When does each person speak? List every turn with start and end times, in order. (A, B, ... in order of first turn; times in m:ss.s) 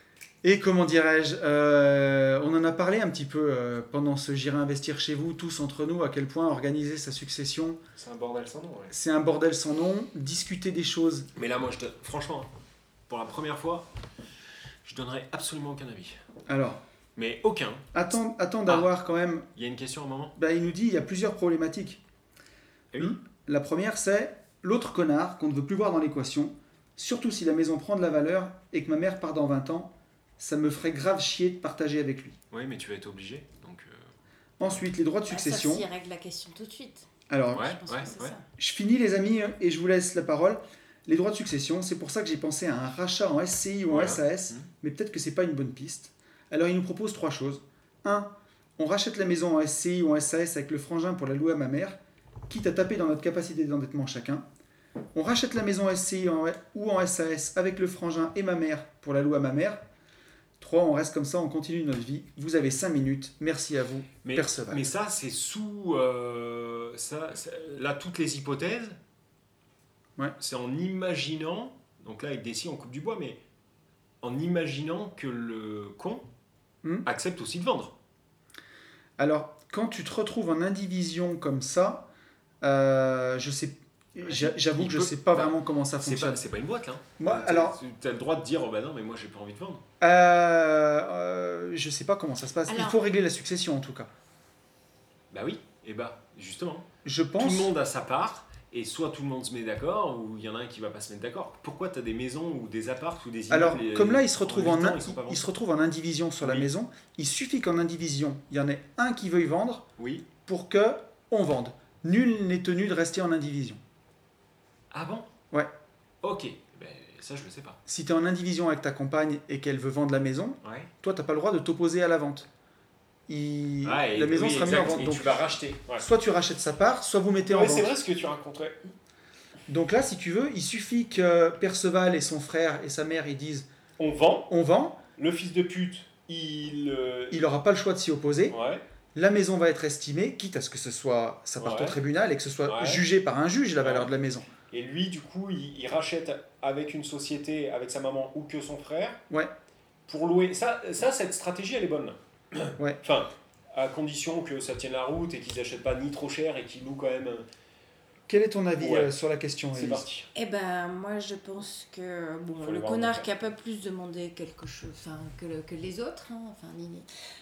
0:00.4-0:07.8 A
0:08.0-0:08.9 B
0:08.9-0:11.3 A
0:11.4-0:12.5 B
0:13.1-0:13.9 B
0:14.8-0:16.2 B
0:16.5-0:16.8 A
0:17.2-0:17.9 B
0:17.9-0:19.5 A
0:19.6-0:20.4 B
0:20.4-0:22.0 A
0:23.0-0:32.4 A
0:32.5-0:34.1 B
0:34.6-0:35.8 A
0:35.3-0:38.5 C
0:37.3-0:37.8 A
0:37.5-0:38.4 B
0:38.6-0:52.0 A
0:43.9-0:44.7 B
0:52.5-0:54.4 A
0:55.1-0:59.8 A
1:00.6-1:04.8 A
1:04.2-1:09.0 B
1:10.4-1:13.4 B
1:14.2-1:16.2 B
1:17.0-1:17.9 B
1:19.2-1:22.1 A
1:22.6-1:26.4 A
1:24.2-1:29.8 B
1:27.2-1:27.8 A
1:30.0-1:34.1 A
1:32.7-1:33.0 C
1:35.3-1:36.9 B
1:37.0-1:37.7 A
1:37.4-1:45.5 B
1:43.5-1:49.9 A
1:46.4-1:46.7 B
1:50.0-1:50.3 B
1:50.4-1:53.8 A
1:54.9-1:55.3 B
1:56.2-1:57.8 B
1:57.9-2:02.5 A
2:00.6-2:00.9 B
2:03.3-2:05.5 A
2:03.8-2:06.1 B
2:06.0-2:07.9 A
2:07.5-2:08.8 B
2:09.7-2:13.7 A
2:14.0-2:14.5 B
2:14.5-2:15.0 A
2:15.2-2:17.4 B
2:17.3-2:18.6 A
2:18.5-2:18.8 B
2:19.2-2:24.5 A
2:21.6-2:22.0 B
2:22.7-2:23.0 B
2:23.8-2:24.1 B
2:24.7-2:29.2 B
2:30.1-2:37.4 B
2:38.3-2:40.1 A
2:38.8-2:39.1 B
2:39.7-2:40.3 B
2:40.3-2:47.1 C
2:42.6-2:43.3 B